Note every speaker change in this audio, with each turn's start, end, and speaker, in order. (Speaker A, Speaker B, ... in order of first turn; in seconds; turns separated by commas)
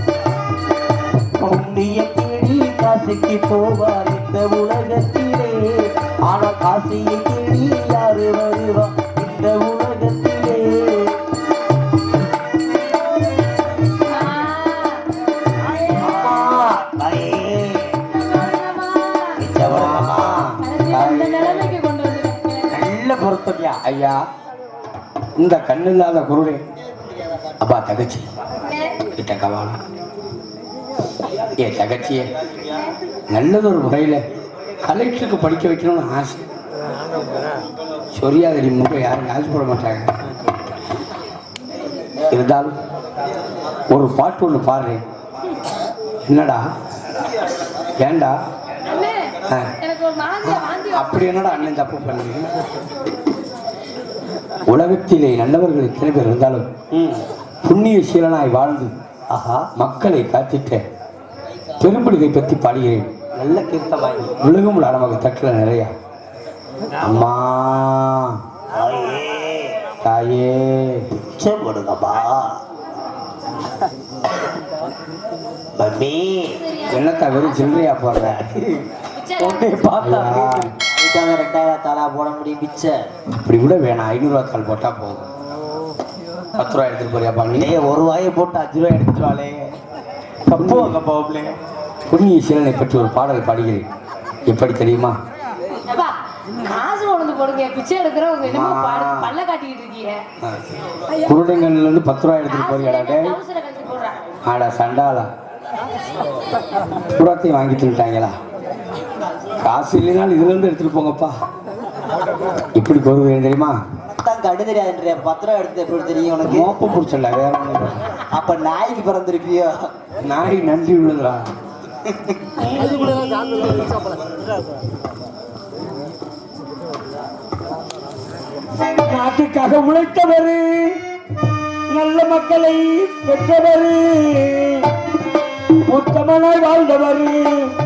Speaker A: 1.4-11.1, Speaker B: 14.1-15.0, Speaker C: 16.0-16.7, Speaker A: 16.0-18.0, Speaker B: 18.1-19.5, Speaker A: 19.4-20.5, Speaker C: 19.6-21.8, Speaker B: 20.6-22.9, Speaker A: 22.8-23.8, Speaker C: 23.6-24.2, Speaker C: 25.4-26.6, Speaker C: 27.6-28.3, Speaker B: 28.6-29.0, Speaker C: 29.1-29.8, Speaker C: 31.6-32.3, Speaker C: 33.3-34.2, Speaker C: 34.8-36.4, Speaker C: 38.1-40.1, Speaker C: 42.3-42.7, Speaker C: 43.9-45.0, Speaker C: 46.3-46.6, Speaker C: 48.0-48.3, Speaker B: 48.9-51.5, Speaker C: 50.4-52.5, Speaker C: 54.7-58.9, Speaker A: 59.3-59.7, Speaker C: 59.8-60.8, Speaker C: 61.8-63.1, Speaker A: 63.4-64.3, Speaker C: 64.4-65.9, Speaker C: 67.0-68.3, Speaker A: 68.7-69.7, Speaker C: 70.0-71.0, Speaker A: 71.3-72.6, Speaker A: 75.8-76.7, Speaker B: 76.6-78.0, Speaker C: 76.9-78.4, Speaker A: 78.2-78.8, Speaker B: 79.2-80.0, Speaker A: 79.4-83.0, Speaker C: 80.0-80.7, Speaker C: 83.3-85.3, Speaker C: 86.6-87.7, Speaker A: 87.5-89.7, Speaker A: 90.5-91.6, Speaker C: 90.6-91.0, Speaker C: 92.1-93.9, Speaker C: 94.5-95.1, Speaker B: 95.9-100.2, Speaker C: 98.4-99.3, Speaker C: 101.2-103.4, Speaker B: 102.5-104.2, Speaker C: 104.5-105.3, Speaker C: 107.1-108.3, Speaker C: 109.6-111.3, Speaker C: 112.8-113.8, Speaker A: 114.2-116.7, Speaker C: 116.5-118.0, Speaker A: 118.3-119.9, Speaker C: 120.2-121.5, Speaker C: 122.6-123.1, Speaker C: 129.1-130.8, Speaker C: 131.9-134.8, Speaker C: 135.8-137.5